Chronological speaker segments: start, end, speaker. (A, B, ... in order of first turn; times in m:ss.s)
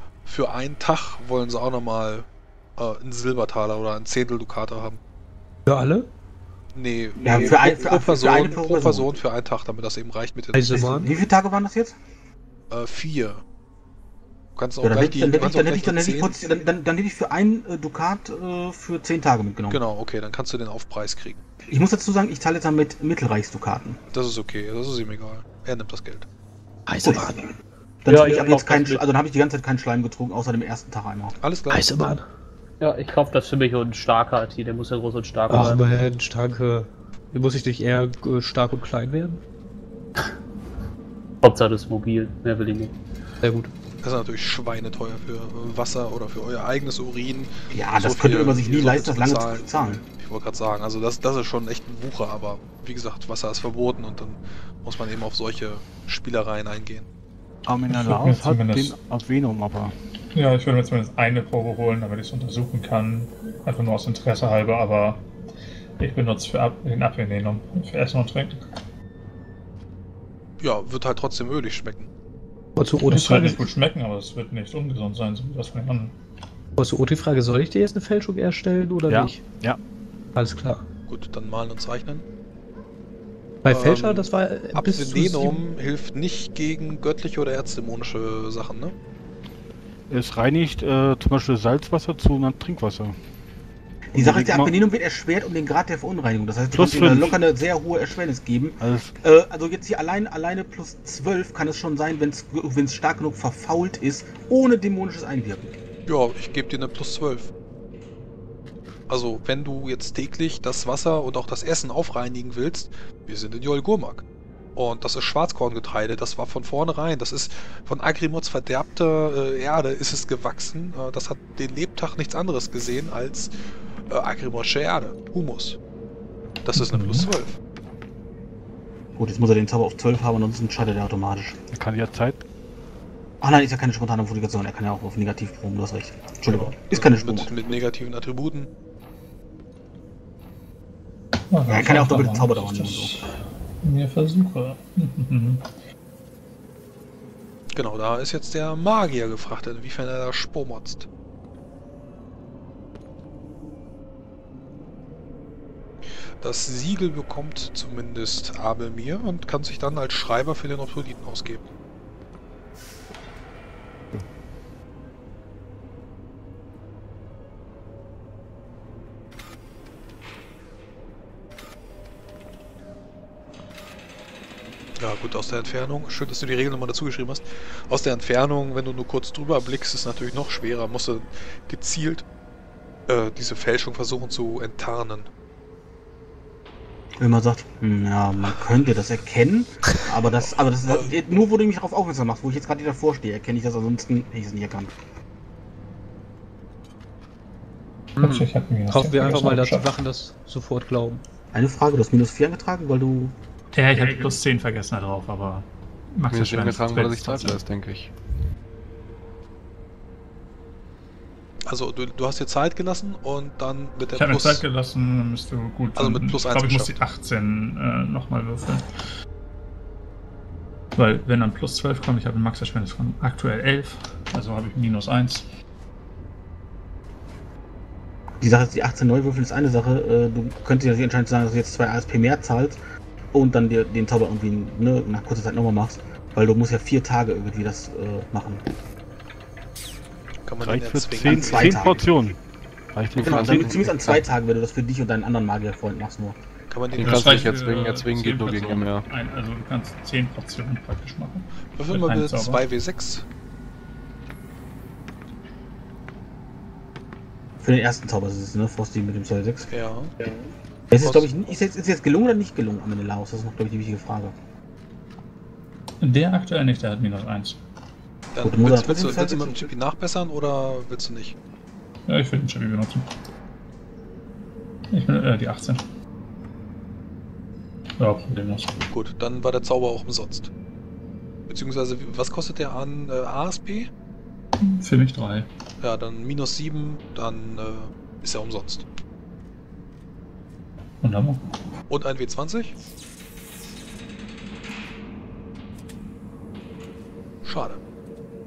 0:00.2-0:05.0 A
0:05.7-0:06.1 B
0:06.7-0:11.1 A
0:07.2-0:09.1 C
0:10.5-0:11.1 B
0:10.7-0:12.0 C
0:12.7-0:13.4 A
0:14.6-0:16.4 A
0:14.8-0:19.8 C
0:19.7-0:21.4 A
0:21.7-0:24.0 C
0:24.1-0:26.3 A
0:26.9-0:27.5 B
0:27.0-0:27.5 C
0:28.0-0:31.4 C
0:28.1-0:29.0 D
0:31.4-0:31.9 A
0:31.7-0:32.2 B
0:32.8-0:35.8 D
0:35.5-0:39.4 B
0:41.4-0:43.0 D
0:43.4-0:43.7 B
0:44.0-0:57.1 A
0:47.7-0:50.0 C
0:57.7-0:59.9 E
0:57.9-0:59.0 F
1:00.3-1:05.2 F
1:06.0-1:08.6 F
1:10.6-1:12.1 A
1:12.8-1:13.7 B
1:13.1-1:16.2 F
1:16.8-1:19.4 B
1:19.1-1:19.8 E
1:20.4-1:20.8 B
1:21.1-1:22.2 A
1:23.6-1:25.6 B
1:23.7-1:29.0 A
1:30.1-1:33.2 E
1:34.1-1:45.8 C
1:34.2-1:34.8 E
1:36.7-1:37.4 E
1:38.8-1:39.2 E
1:46.1-1:47.5 A
1:49.1-1:54.2 A
1:54.8-2:03.5 A
2:04.1-2:05.8 A
2:06.6-2:07.6 A
2:06.8-2:07.3 F
2:09.2-2:11.6 C
2:11.7-2:12.4 E
2:13.4-2:17.5 C
2:16.5-2:18.7 A
2:21.5-2:25.7 F
2:21.7-2:23.3 C
2:27.8-2:31.1 A
2:36.4-2:41.6 A
2:55.0-3:02.2 A
3:03.1-3:05.3 A
3:07.2-3:14.9 C
3:10.8-3:11.2 A
3:18.2-3:19.9 F
3:18.2-3:21.2 B
3:21.5-3:23.3 C
3:23.7-3:27.6 F
3:26.3-3:28.1 G
3:31.7-3:34.6 A
3:34.2-3:38.9 F
3:36.0-3:37.0 A
3:41.0-3:45.4 F
3:48.4-3:52.8 C
3:53.3-3:58.7 C
4:00.5-4:01.9 A
4:00.6-4:02.4 E
4:01.2-4:02.0 C
4:02.9-4:04.0 E
4:03.2-4:04.2 G
4:03.2-4:06.4 C
4:06.7-4:07.5 A
4:07.0-4:09.1 G
4:07.0-4:12.6 F
4:11.8-4:13.2 A
4:17.6-4:19.7 C
4:19.7-4:20.2 A
4:20.9-4:24.4 C
4:21.0-4:21.3 A
4:26.0-4:27.6 F
4:28.3-4:31.4 A
4:28.4-4:29.6 C
4:32.1-4:33.1 F
4:34.9-4:35.8 F
4:38.0-4:38.8 F
4:38.9-4:40.5 A
4:41.5-4:43.9 A
4:44.6-4:45.5 F
4:45.8-4:48.8 A
4:51.0-4:51.4 F
4:51.9-4:52.7 A
4:57.4-4:57.8 A